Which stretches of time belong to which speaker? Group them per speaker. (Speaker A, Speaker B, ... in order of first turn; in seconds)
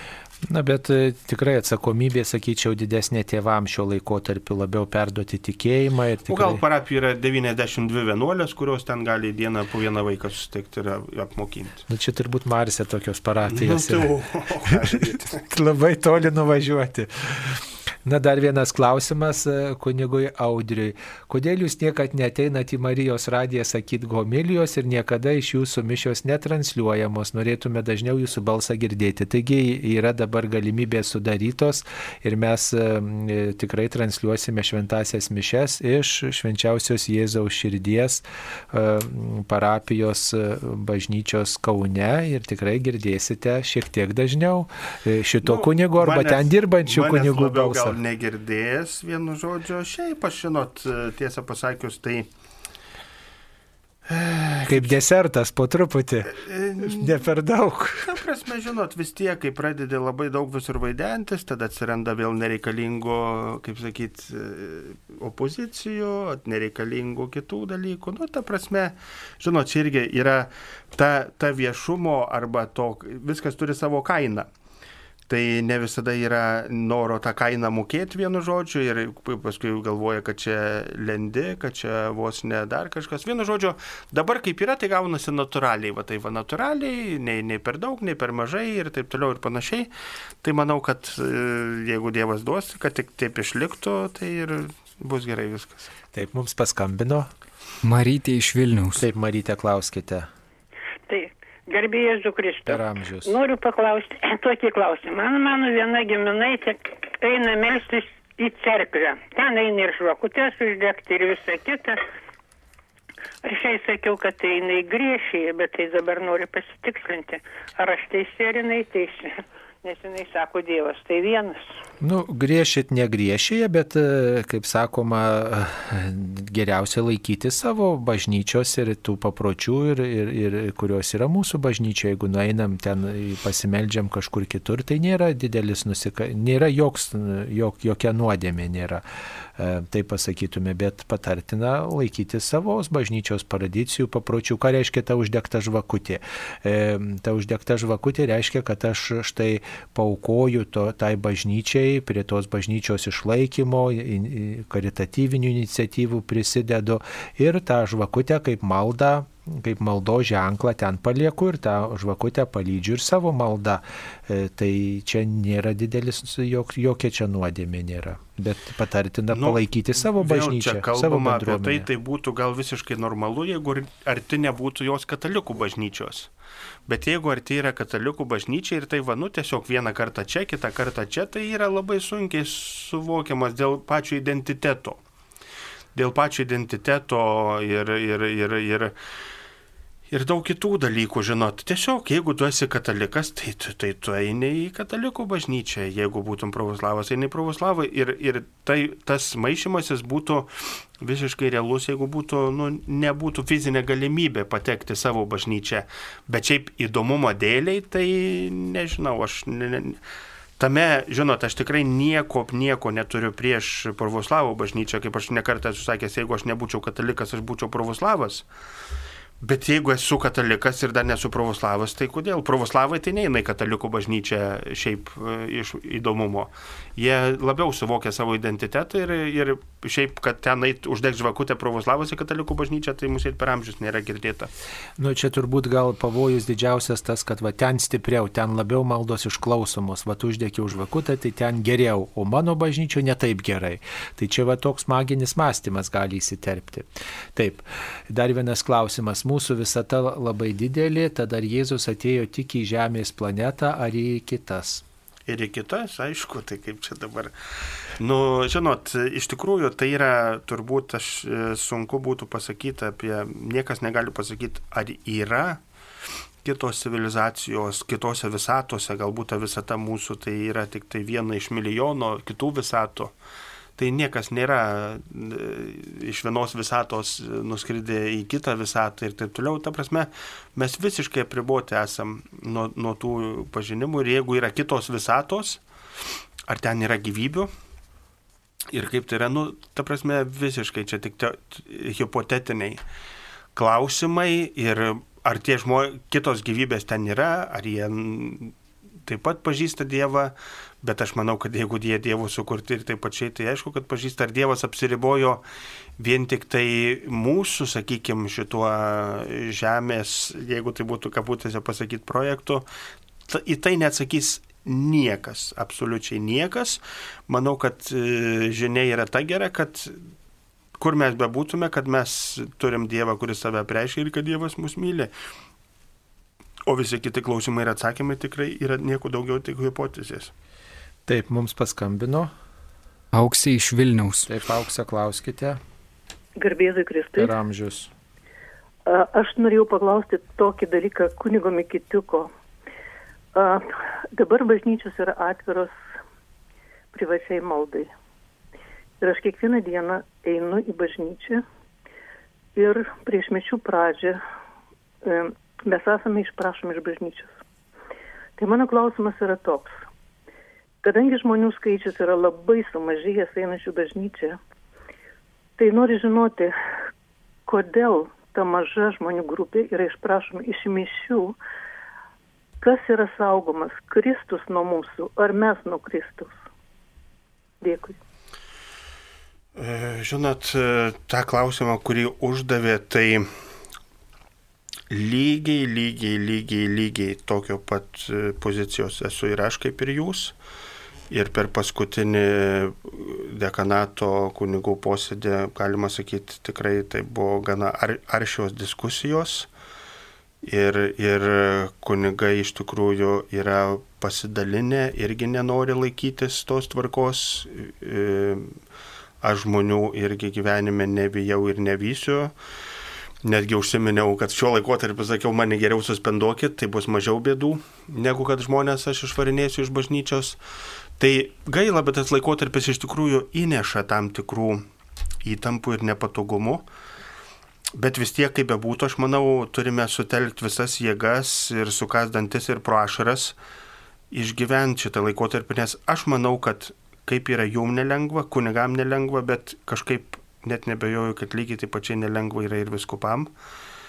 Speaker A: 0.4-6.6, 11.9-14.1, 15.3-48.0, 54.7-58.1, 96.1-97.3, 99.0-100.3, 102.7-103.3, 122.0-139.0, 139.6-171.9, 235.0-254.8, 331.1-332.3, 334.3-335.6, 337.1-337.9
Speaker B: 6.3-11.8, 13.5-15.4, 45.4-52.3, 54.0-55.0, 56.3-57.2, 58.0-74.5, 75.3-89.9, 90.4-95.9, 169.3-176.3, 176.9-185.0, 185.9-188.9, 190.1-210.0, 210.6-218.4, 219.4-234.5, 255.3-257.3, 258.0-265.6, 266.4-273.1, 273.8-285.6, 286.5-287.5, 288.7-292.8, 293.6-305.4, 306.0-312.6, 313.3-320.0, 320.8-325.1, 326.6-330.3, 379.6-383.3, 384.9-390.3, 391.1-399.5, 400.4-408.5, 409.2-412.3, 413.2-420.4, 421.0-424.6, 425.2-426.6, 427.7-433.4, 434.1-443.3
Speaker C: 97.8-99.0, 333.1-334.3
Speaker D: 101.1-112.0, 113.4-121.8
Speaker E: 336.4-337.3, 338.9-342.3, 343.3-345.7, 346.9-347.9, 349.0-351.4, 352.6-354.2, 355.0-357.4, 358.4-359.9, 360.8-364.4, 365.6-366.6, 367.5-371.4, 372.6-376.4, 377.6-378.0